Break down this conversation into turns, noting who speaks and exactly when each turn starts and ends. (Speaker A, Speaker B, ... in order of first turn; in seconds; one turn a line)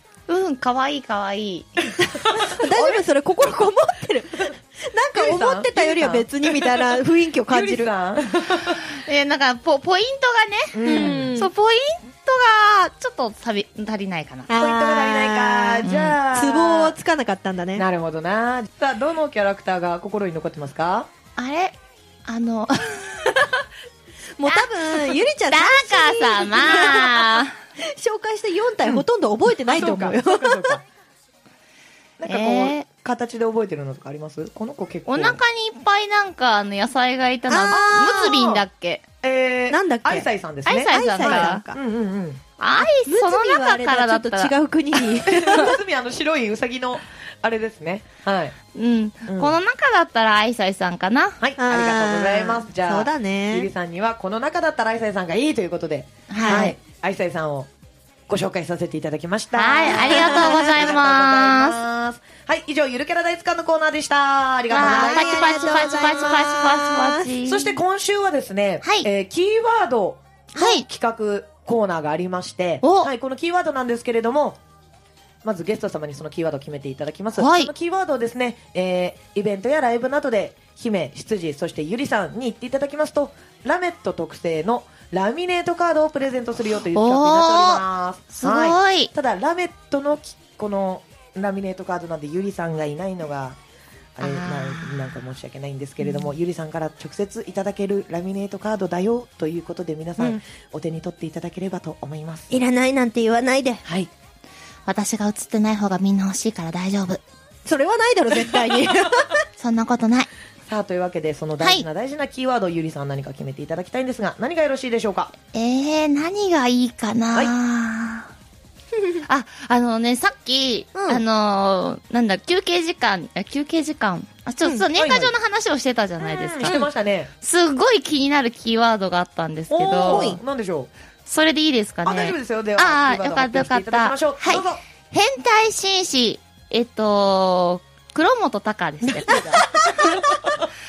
Speaker A: 0.3-2.0
Speaker B: 2.0-3.0
Speaker C: 2.3-7.9
Speaker B: 5.1-7.0
Speaker B: 7.5-8.8
Speaker A: 8.8-14.5
Speaker B: 10.7-11.3
Speaker C: 10.8-11.5
Speaker C: 14.5-17.9
Speaker B: 14.5-17.0
Speaker A: 15.8-16.2
Speaker B: 17.8-21.1
Speaker A: 21.4-21.7
Speaker A: 22.3-23.5
Speaker C: 24.4-30.8
Speaker A: 24.5-27.5
Speaker B: 29.6-30.8
Speaker B: 32.2-35.4
Speaker A: 32.2-32.9
Speaker A: 35.1-39.0
Speaker C: 37.5-38.4
Speaker B: 38.2-38.6
Speaker B: 39.2-42.4
Speaker C: 39.7-40.3
Speaker A: 40.7-41.6
Speaker C: 40.9-41.8
Speaker A: 42.6-45.1
Speaker C: 43.0-45.7
Speaker B: 45.3-48.6
Speaker A: 48.7-51.4
Speaker B: 49.3-49.5
Speaker B: 51.4-57.7
Speaker C: 51.6-53.7
Speaker A: 56.3-56.8
Speaker C: 56.4-56.7
Speaker B: 58.3-66.3
Speaker A: 59.5-61.8
Speaker C: 59.9-60.9
Speaker A: 64.7-67.8
Speaker C: 64.8-67.3
Speaker B: 67.5-74.6
Speaker A: 70.6-70.8
Speaker A: 72.8-73.1
Speaker B: 75.4-93.6
Speaker A: 77.4-77.7
Speaker A: 86.9-87.8
Speaker A: 88.4-89.1
Speaker B: 94.2-102.5
Speaker A: 94.2-95.2
Speaker C: 102.5-103.8
Speaker B: 103.8-104.1
Speaker A: 104.9-107.2
Speaker C: 107.7-109.4
Speaker A: 109.6-110.3
Speaker B: 110.7-115.3
Speaker A: 115.5-118.3
Speaker A: 119.2-126.9
Speaker C: 121.0-121.2
Speaker B: 124.9-125.3
Speaker B: 126.2-127.3
Speaker A: 127.4-130.4
Speaker B: 129.7-130.9
Speaker C: 130.1-130.4
Speaker A: 131.3-140.2
Speaker B: 132.0-134.8
Speaker B: 139.0-140.6
Speaker C: 139.7-140.2